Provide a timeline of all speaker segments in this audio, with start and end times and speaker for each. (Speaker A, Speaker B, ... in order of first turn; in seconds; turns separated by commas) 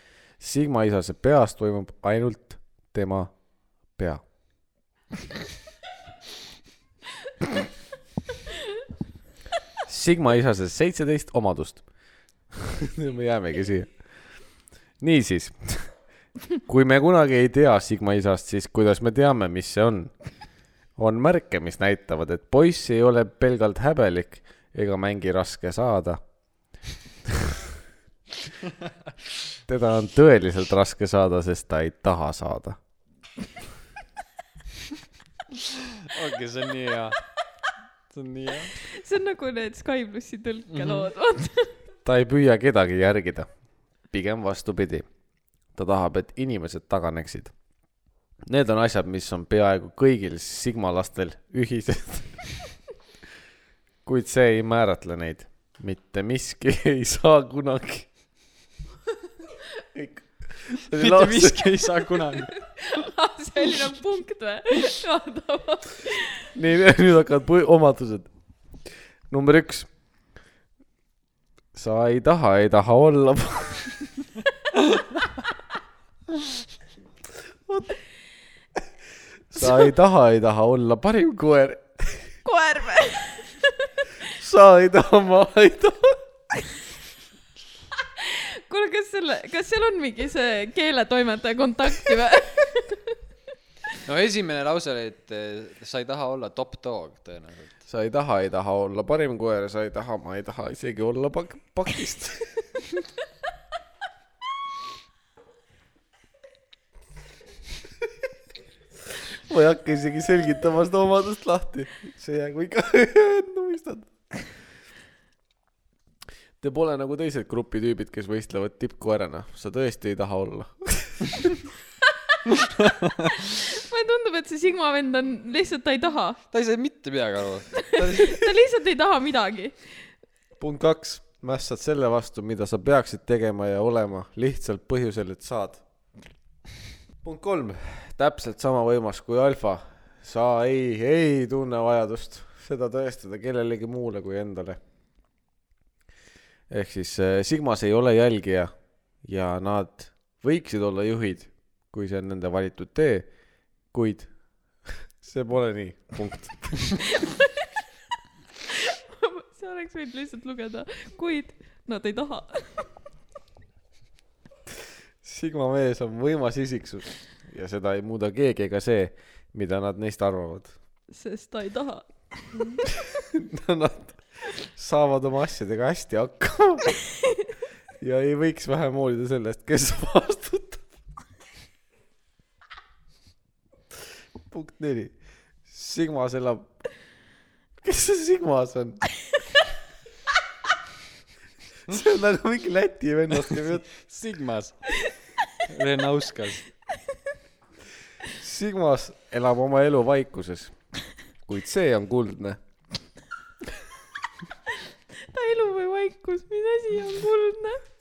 Speaker A: 0.4-3.3, Speaker A: 4.0-4.2, Speaker A: 9.8-11.8, Speaker A: 12.5-14.0, Speaker A: 15.0-15.9, Speaker A: 16.6-20.2, Speaker A: 20.9-26.2, Speaker A: 27.2-27.6, Speaker A: 29.7-32.8, Speaker B: 36.1-37.2, Speaker B: 38.1-38.7, Speaker C: 38.8-41.8, Speaker B: 40.7-41.1, Speaker A: 42.0-43.5, Speaker A: 44.1-45.0, Speaker A: 45.7-47.5, Speaker A: 48.4-52.5, Speaker A: 54.0-58.1, Speaker A: 59.9-61.8, Speaker B: 60.9-62.5, Speaker C: 62.5-66.5, Speaker A: 66.5-68.3, Speaker A: 69.3-69.9, Speaker A: 71.7-73.9, Speaker A: 79.5-82.2, Speaker C: 82.4-83.9, Speaker A: 84.3-86.2, Speaker C: 88.2-93.1, Speaker B: 94.0-97.8, Speaker A: 97.9-102.6, Speaker A: 109.2-114.1, Speaker A: 116.6-121.5, Speaker B: 122.8-123.1, Speaker C: 123.3-126.4, Speaker B: 126.5-128.3, Speaker C: 127.8-130.1, Speaker A: 130.6-135.8, Speaker A: 137.2-144.8, Speaker A: 146.7-153.3, Speaker A: 153.9-154.3, Speaker A: 154.8-157.0, Speaker C: 159.1-162.9, Speaker A: 165.2-170.7, Speaker C: 171.1-172.8, Speaker A: 173.3-176.8, Speaker A: 178.0-180.8, Speaker A: 184.5-185.1, Speaker A: 185.7-186.7, Speaker A: 187.8-189.0, Speaker A: 191.9-193.9, Speaker B: 193.3-194.8, Speaker B: 195.7-196.6, Speaker A: 198.3-200.7, Speaker A: 201.4-202.6, Speaker C: 205.1-207.8